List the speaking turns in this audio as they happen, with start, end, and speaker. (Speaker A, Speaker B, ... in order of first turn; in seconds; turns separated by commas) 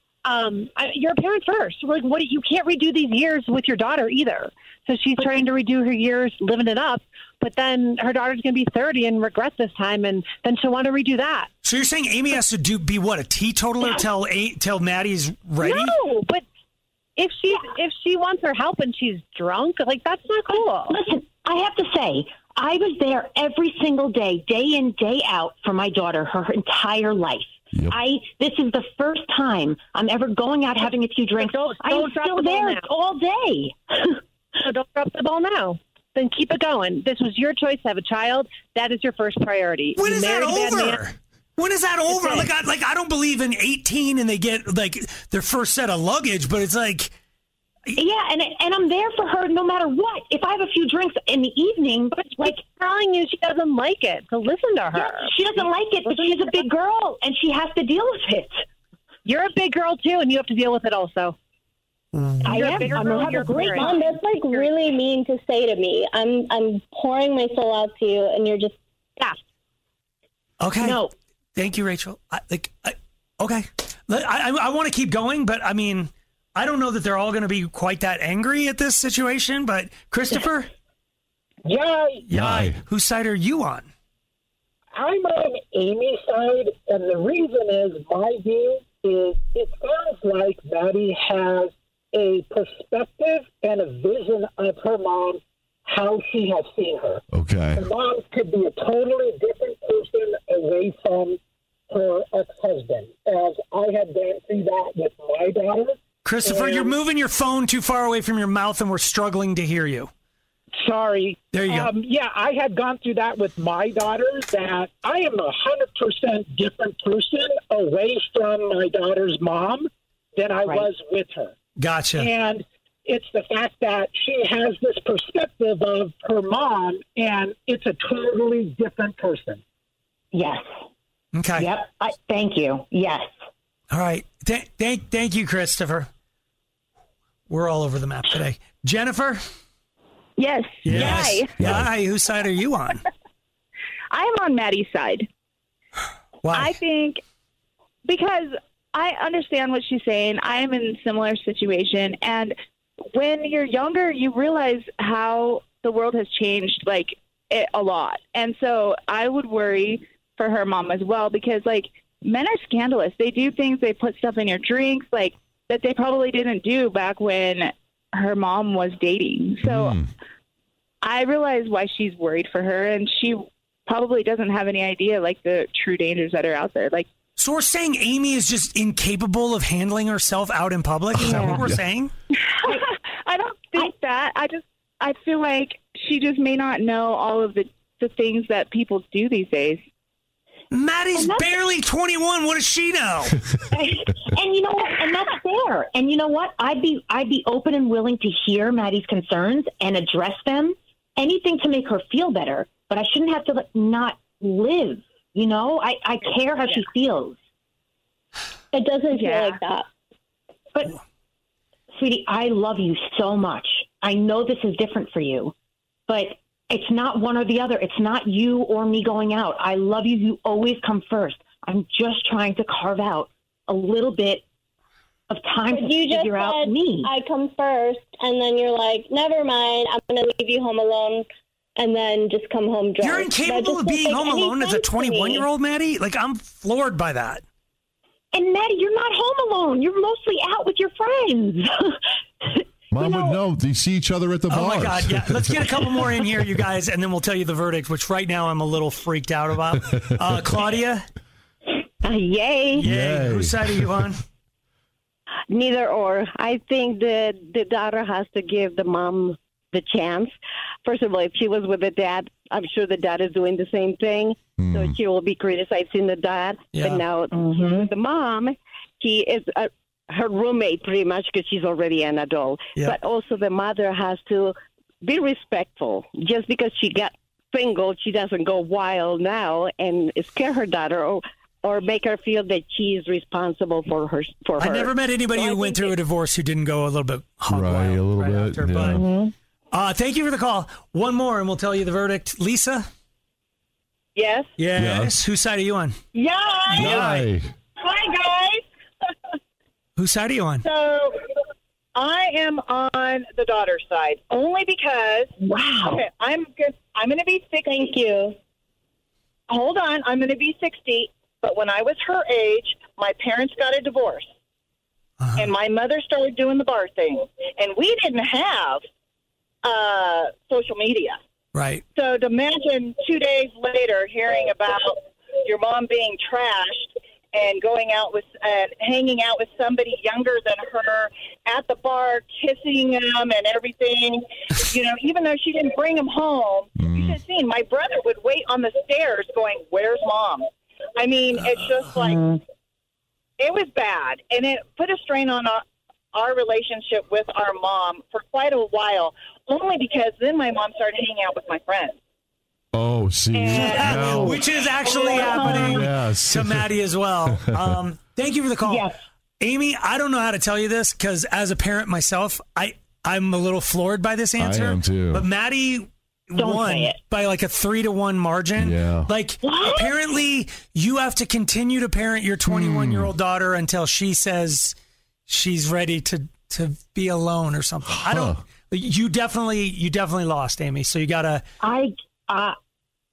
Speaker A: 0.2-11.5, Speaker B: 11.6-16.0, Speaker A: 15.6-16.4, Speaker A: 17.2-21.0, Speaker C: 20.6-34.1, Speaker A: 31.4-32.9, Speaker A: 34.5-41.0, Speaker B: 40.0-47.1, Speaker A: 42.1-42.5, Speaker C: 47.9-52.6, Speaker A: 52.2-55.4, Speaker C: 55.0-58.6, Speaker A: 56.0-56.6, Speaker A: 59.2-61.4, Speaker A: 62.1-64.7, Speaker C: 62.4-64.1, Speaker D: 63.7-68.8, Speaker B: 70.6-71.0, Speaker C: 70.8-71.1, Speaker B: 71.6-80.7, Speaker E: 81.7-82.3, Speaker B: 82.2-83.9, Speaker F: 82.3-82.8, Speaker E: 84.9-97.2, Speaker F: 97.3-97.8, Speaker E: 97.8-101.4, Speaker E: 101.9-106.9, Speaker B: 106.2-110.1, Speaker E: 110.8-121.5, Speaker B: 111.5-111.9, Speaker B: 121.8-122.3, Speaker E: 122.2-129.6, Speaker C: 130.3-130.7, Speaker B: 131.3-131.7, Speaker C: 131.6-133.3, Speaker B: 133.9-136.1, Speaker B: 137.5-139.4, Speaker G: 140.4-141.5, Speaker B: 140.8-143.0, Speaker F: 140.9-141.9, Speaker G: 144.1-145.3, Speaker B: 146.4-146.8, Speaker G: 146.5-147.2, Speaker G: 148.1-152.6, Speaker G: 153.1-170.0, Speaker F: 169.6-170.1, Speaker G: 171.0-177.1, Speaker B: 177.4-182.1, Speaker F: 181.1-181.8, Speaker C: 181.3-181.5, Speaker G: 182.6-189.8, Speaker B: 190.7-193.4, Speaker C: 191.2-191.5, Speaker C: 193.7-207.4, Speaker D: 208.7-209.9, Speaker G: 209.1-209.6, Speaker C: 211.9-215.5, Speaker C: 216.1-224.4, Speaker C: 225.3-227.1, Speaker D: 225.7-231.3, Speaker D: 231.8-235.4, Speaker B: 233.0-237.4, Speaker C: 238.3-241.9, Speaker C: 242.6-243.4, Speaker F: 242.9-246.1, Speaker B: 244.5-251.1, Speaker H: 252.0-252.8, Speaker B: 252.8-254.2, Speaker F: 252.8-254.0, Speaker H: 255.5-285.9, Speaker F: 264.6-265.0, Speaker B: 266.7-267.0, Speaker B: 284.6-289.0, Speaker F: 287.5-289.1, Speaker B: 289.7-292.9, Speaker I: 294.2-294.5, Speaker B: 294.6-296.0, Speaker F: 294.8-295.2, Speaker I: 296.1-296.8, Speaker B: 296.7-297.3, Speaker F: 296.8-297.5, Speaker I: 297.8-298.6, Speaker B: 300.0-300.7, Speaker I: 300.6-301.2, Speaker I: 301.9-305.3, Speaker C: 305.4-306.1, Speaker I: 305.9-307.9, Speaker D: 307.7-308.4, Speaker I: 309.5-314.3, Speaker B: 315.2-315.5, Speaker I: 315.4-318.8, Speaker I: 319.6-321.2, Speaker B: 321.5-321.8, Speaker I: 322.0-342.2, Speaker F: 336.8-337.2, Speaker I: 343.4-352.0, Speaker F: 352.7-354.4, Speaker I: 353.4-354.3, Speaker B: 353.4-374.8, Speaker I: 354.8-355.6, Speaker H: 355.1-355.6, Speaker F: 355.5-356.7, Speaker F: 357.3-357.8, Speaker F: 364.4-365.2, Speaker C: 366.4-366.9, Speaker F: 368.6-369.1, Speaker F: 372.5-373.1, Speaker B: 375.3-381.4, Speaker F: 377.9-378.4, Speaker C: 381.6-382.6